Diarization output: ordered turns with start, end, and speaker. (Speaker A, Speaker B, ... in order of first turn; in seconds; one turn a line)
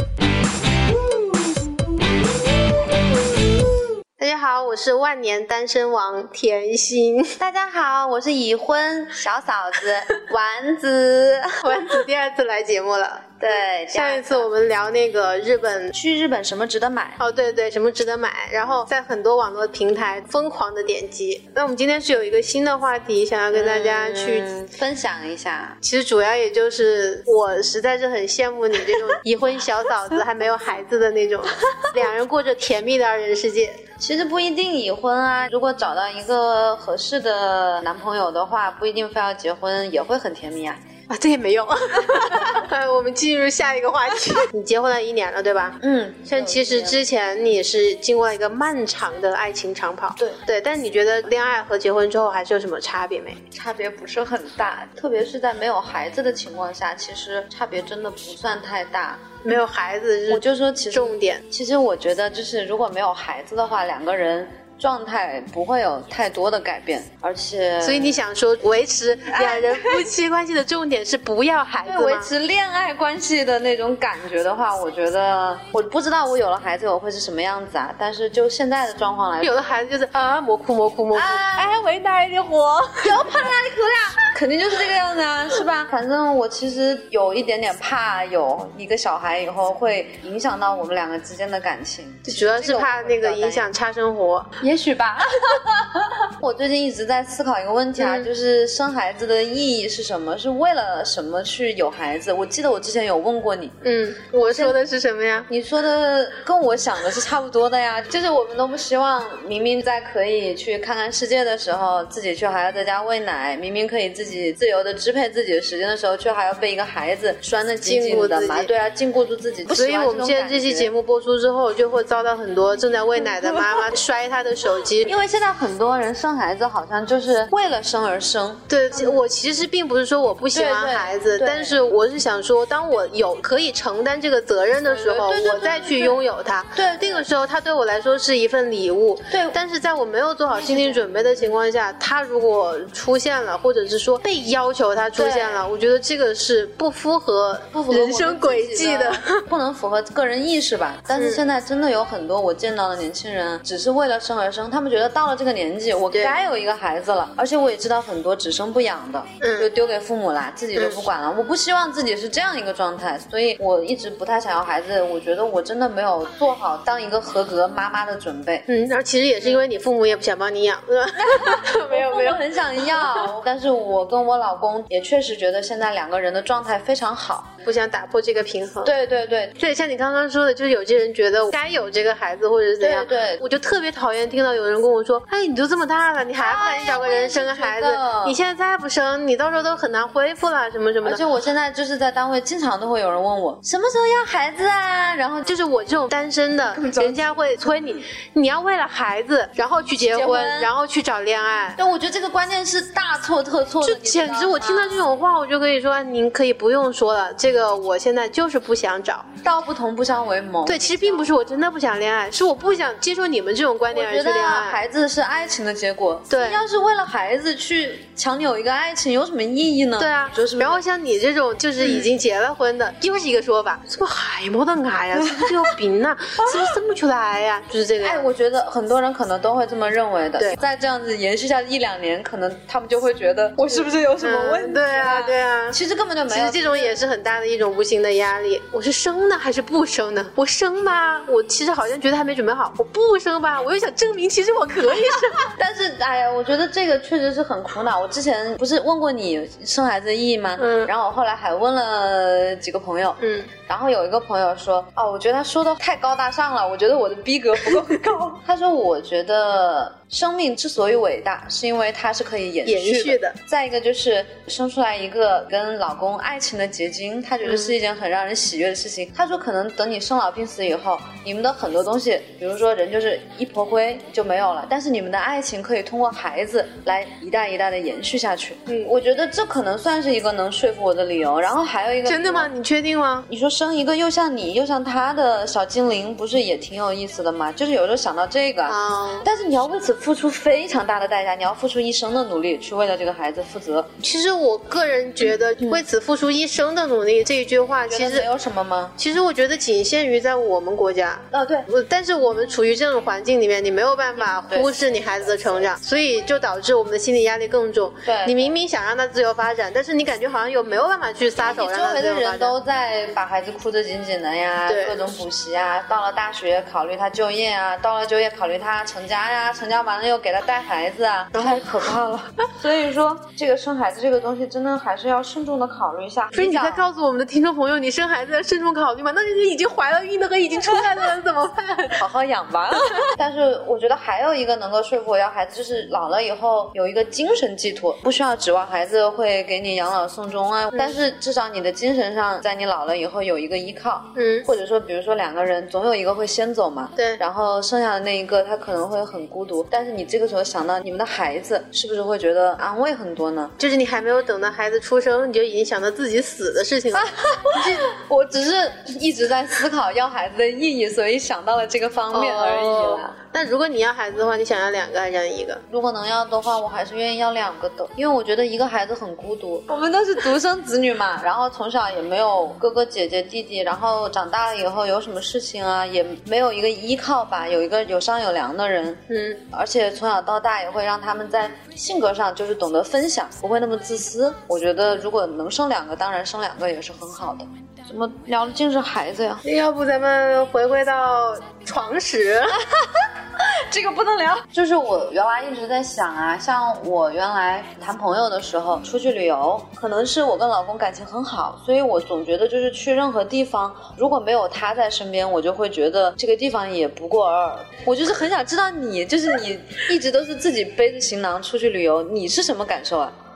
Speaker A: 4.2-7.4
Speaker B: 7.4-11.9
Speaker A: 11.6-13.4
Speaker B: 13.4-14.5
Speaker A: 13.9-15.9
Speaker B: 15.9-17.2
Speaker A: 17.2-24.5
Speaker B: 23.5-25.8
Speaker A: 25.8-33.8
Speaker B: 34.0-40.8
Speaker A: 41.1-53.4
Speaker B: 45.8-47.0
Speaker B: 53.5-59.4
Speaker A: 59.4-61.4
Speaker B: 60.3-68.2
Speaker A: 67.8-72.3
Speaker B: 69.3-70.0
Speaker B: 71.8-79.5
Speaker A: 79.4-83.3
Speaker B: 81.1-81.8
Speaker B: 83.0-93.7
Speaker A: 92.2-94.5
Speaker B: 94.6-103.8
Speaker A: 98.0-98.3
Speaker A: 103.8-105.5
Speaker B: 104.4-104.8
Speaker B: 105.5-120.9
Speaker A: 117.8-118.7
Speaker A: 119.7-125.1
Speaker B: 123.2-123.8
Speaker B: 125.0-129.2
Speaker A: 128.7-149.4
Speaker B: 130.5-131.8
Speaker B: 134.8-136.2
Speaker B: 136.8-137.3
Speaker B: 139.3-139.6
Speaker B: 140.5-141.6
Speaker B: 145.2-145.6
Speaker B: 147.7-168.7
Speaker A: 151.1-151.4
Speaker A: 156.1-156.4
Speaker A: 159.4-159.7
Speaker A: 160.8-161.0
Speaker A: 168.7-173.3
Speaker B: 171.2-177.5
Speaker A: 177.6-178.9
Speaker B: 178.8-179.6
Speaker A: 179.6-191.2
Speaker B: 182.8-183.4
Speaker B: 186.4-188.4
Speaker B: 191.0-195.5
Speaker A: 195.4-201.8
Speaker B: 196.7-197.3
Speaker B: 200.0-200.7
Speaker B: 201.8-205.0
Speaker A: 203.8-209.3
Speaker B: 209.4-211.3
Speaker A: 210.7-214.8
Speaker B: 213.9-220.8
Speaker A: 216.3-216.6
Speaker A: 220.0-228.3
Speaker B: 225.2-225.6
Speaker B: 228.0-236.9
Speaker A: 233.7-245.5
Speaker B: 245.6-282.5
Speaker A: 250.6-250.9
Speaker A: 253.2-253.5
Speaker A: 262.6-263.4
Speaker A: 267.4-267.7
Speaker A: 278.7-278.9
Speaker A: 282.1-283.3
Speaker B: 283.3-293.9
Speaker A: 288.7-289.3
Speaker A: 294.0-298.3
Speaker B: 295.2-295.8
Speaker B: 297.9-299.0
Speaker A: 299.0-312.6
Speaker B: 301.3-301.7
Speaker B: 304.2-305.7
Speaker B: 308.1-308.5
Speaker B: 311.4-326.8
Speaker A: 314.7-315.0
Speaker A: 321.4-321.7
Speaker A: 326.3-332.0
Speaker B: 332.0-353.6
Speaker A: 344.1-344.5
Speaker A: 347.0-347.2
Speaker A: 353.6-357.1
Speaker B: 356.9-363.1
Speaker A: 362.1-365.6
Speaker B: 365.7-389.4
Speaker A: 379.1-379.4
Speaker A: 389.4-392.6
Speaker B: 392.7-393.1
Speaker B: 393.6-413.1